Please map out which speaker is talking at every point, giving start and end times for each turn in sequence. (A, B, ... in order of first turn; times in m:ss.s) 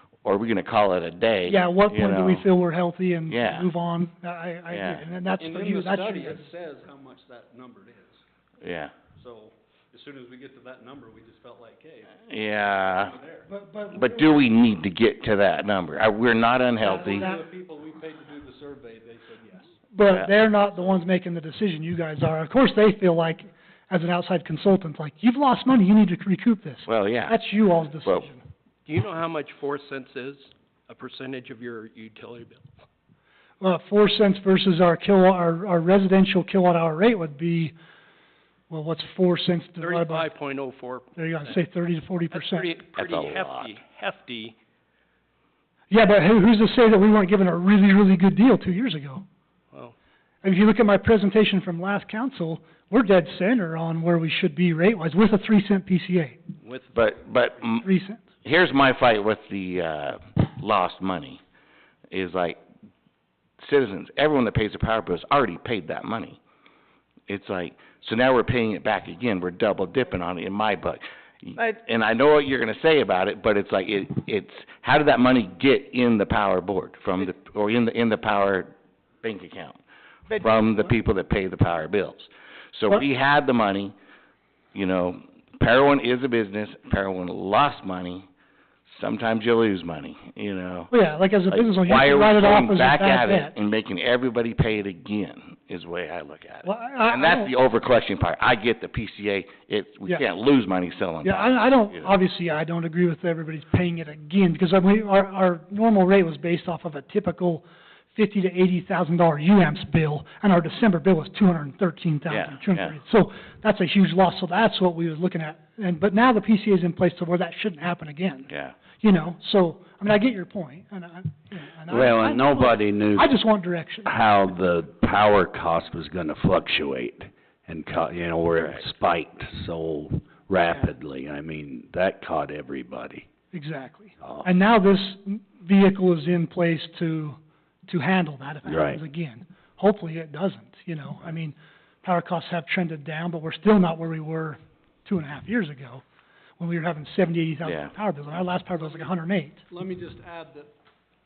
0:00.2-0:02.5 A
0:01.5-0:06.4 B
0:03.3-0:03.7 A
0:04.7-0:05.0 A
0:05.4-0:08.2 C
0:08.6-0:08.9 A
0:09.2-0:12.2 C
0:12.3-0:13.2 A
0:12.9-0:13.4 C
0:13.5-0:14.5 B
0:13.9-0:17.3 A
0:16.8-0:19.8 C
0:16.8-0:17.4 B
0:19.9-0:28.4 B
0:26.9-0:27.4 A
0:28.8-0:32.7 D
0:33.6-0:37.7 B
0:38.7-0:40.3 B
0:39.8-0:41.6 D
0:41.2-0:42.7 B
0:42.3-0:44.6 D
0:43.0-0:43.8 A
0:45.9-0:49.2 B
0:50.4-0:56.4 B
0:56.6-0:57.2 D
0:57.0-0:57.8 A
0:57.8-0:58.2 B
0:58.4-1:01.4 A
1:02.1-1:02.6 A
1:03.6-1:06.4 A
1:07.3-1:19.8 A
1:20.3-1:23.9 A
1:24.7-1:28.3 A
1:28.9-1:30.9 A
1:30.9-1:33.6 B
1:31.5-1:42.2 A
1:36.6-1:37.5 B
1:41.2-1:58.5 B
1:52.3-1:53.0 A
1:58.5-1:58.8 A
1:59.0-2:04.1 B
2:01.9-2:03.4 E
2:04.1-2:13.3 E
2:13.5-2:26.0 B
2:14.2-2:14.5 E
2:18.7-2:19.0 E
2:26.6-2:29.6 B
2:27.6-2:27.9 A
2:28.8-2:29.1 C
2:29.7-2:30.7 C